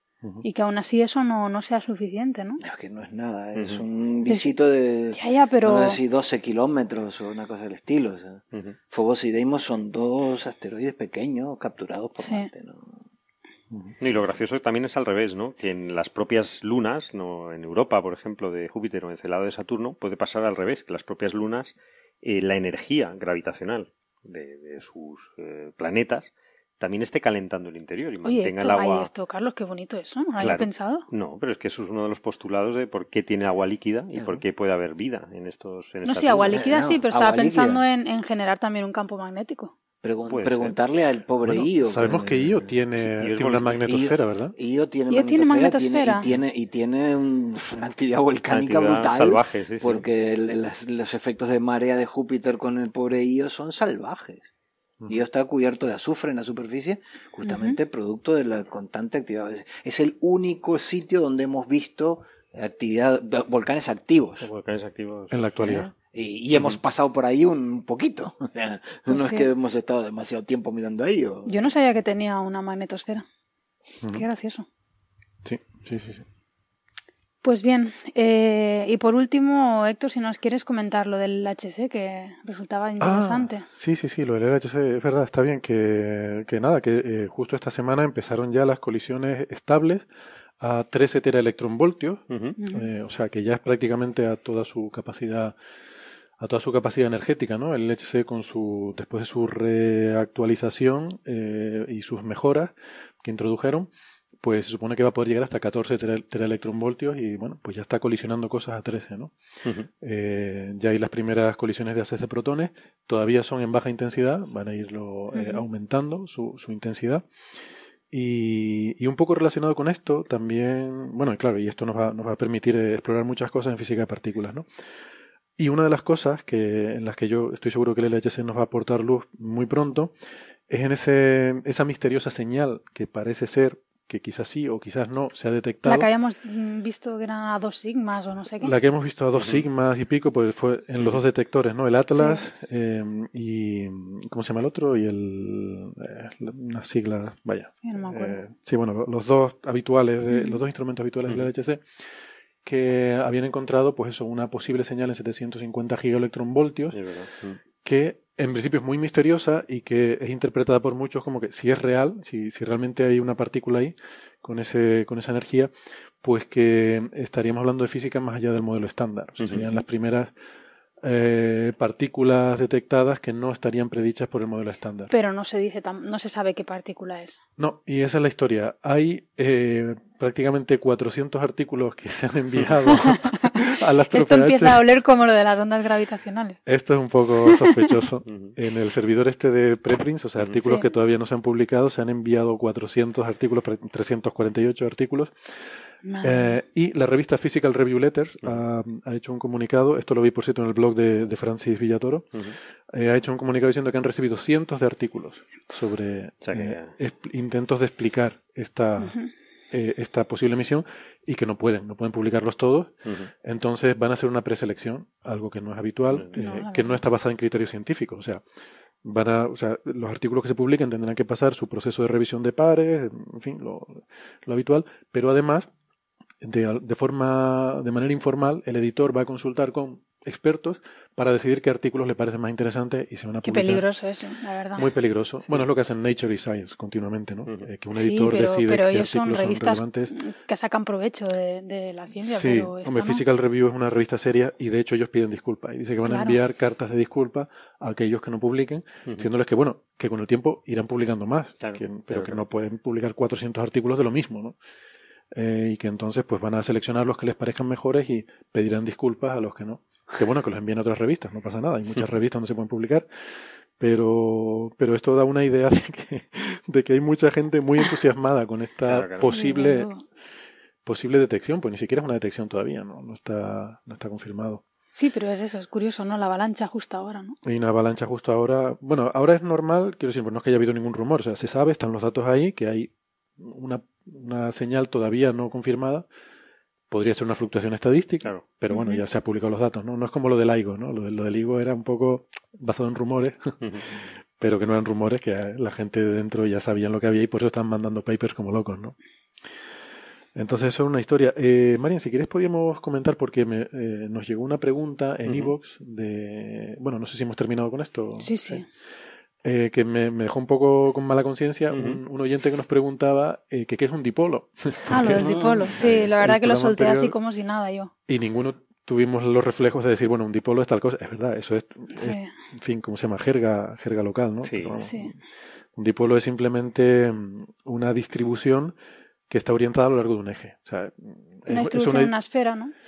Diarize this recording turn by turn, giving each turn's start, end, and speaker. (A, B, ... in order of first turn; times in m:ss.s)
0:00.4-0:02.6 A
0:02.6-0:13.0 B
0:03.6-0:03.8 C
0:05.1-0:06.0 A
0:12.2-0:12.5 A
0:14.0-0:29.1 C
0:28.2-0:31.0 A
0:30.4-0:36.6 C
0:34.1-0:34.4 B
0:36.0-0:39.7 A
0:36.5-0:37.8 B
0:40.0-0:42.7 B
0:40.3-0:40.8 C
0:41.4-0:44.5 D
0:43.0-0:43.8 C
0:43.7-0:54.5 B
0:45.1-0:46.2 A
0:48.5-0:50.0 C
0:55.1-1:04.5 B
0:57.4-0:57.8 A
1:04.4-1:05.4 C
1:05.3-1:05.9 D
1:05.6-1:11.7 B
1:09.1-1:09.5 A
1:11.4-1:13.2 A
1:14.1-1:14.6 A
1:15.4-1:16.2 D
1:17.4-1:23.6 A
1:23.0-1:30.1 D
1:30.6-1:35.6 D
1:32.3-1:32.6 C
1:32.6-1:32.9 A
1:36.4-1:43.9 D
1:44.4-1:49.3 D
1:50.0-1:57.2 D
1:55.3-1:55.6 A
1:58.1-2:04.7 D
2:05.6-2:10.1 D
2:10.7-2:16.1 D
2:15.8-2:18.7 A
2:18.6-2:31.8 D
2:19.3-2:19.6 C
2:21.0-2:21.2 C
2:22.1-2:22.4 A
2:27.8-2:28.4 A
2:30.3-2:30.6 A
2:32.6-2:37.0 D
2:36.9-2:37.6 C
2:37.8-2:45.7 D
2:46.2-2:50.3 D
2:49.4-2:49.7 C
2:51.0-2:55.1 D
2:55.1-2:57.4 A
2:57.6-3:04.8 D
3:03.1-3:06.6 A
3:06.6-3:15.3 D
3:07.5-3:07.8 A
3:08.2-3:08.5 C
3:16.0-3:16.6 A
3:16.2-3:22.3 D
3:22.9-3:29.2 D
3:26.4-3:26.9 C
3:29.0-3:29.3 A
3:29.7-3:38.4 D
3:33.0-3:33.3 C
3:36.4-3:37.0 A
3:39.0-3:45.7 D
3:46.4-3:53.8 D
3:53.4-3:54.9 A
3:54.8-4:00.1 D
3:57.9-4:03.2 A
4:02.2-4:14.6 D
4:06.0-4:06.4 A
4:11.6-4:12.4 C
4:15.3-4:23.1 D
4:23.8-4:29.9 D
4:28.8-4:29.3 C
4:29.2-4:30.0 A
4:30.8-4:34.6 D
4:34.9-4:37.4 A
4:37.4-4:46.0 D
4:46.9-4:53.6 D
4:48.7-4:49.0 A
4:53.6-4:53.9 C
4:54.4-4:59.0 D
5:00.3-5:08.6 D
5:05.2-5:05.5 C
5:08.2-5:08.6 A
5:09.4-5:17.1 D
5:11.7-5:12.0 C
5:14.9-5:17.9 A
5:15.1-5:15.7 B
5:15.8-5:16.1 C
5:18.1-5:25.2 D
5:22.0-5:22.3 A
5:24.4-5:24.8 C
5:24.8-5:25.1 A
5:25.8-5:28.8 D
5:29.3-5:32.1 D
5:31.5-5:32.7 A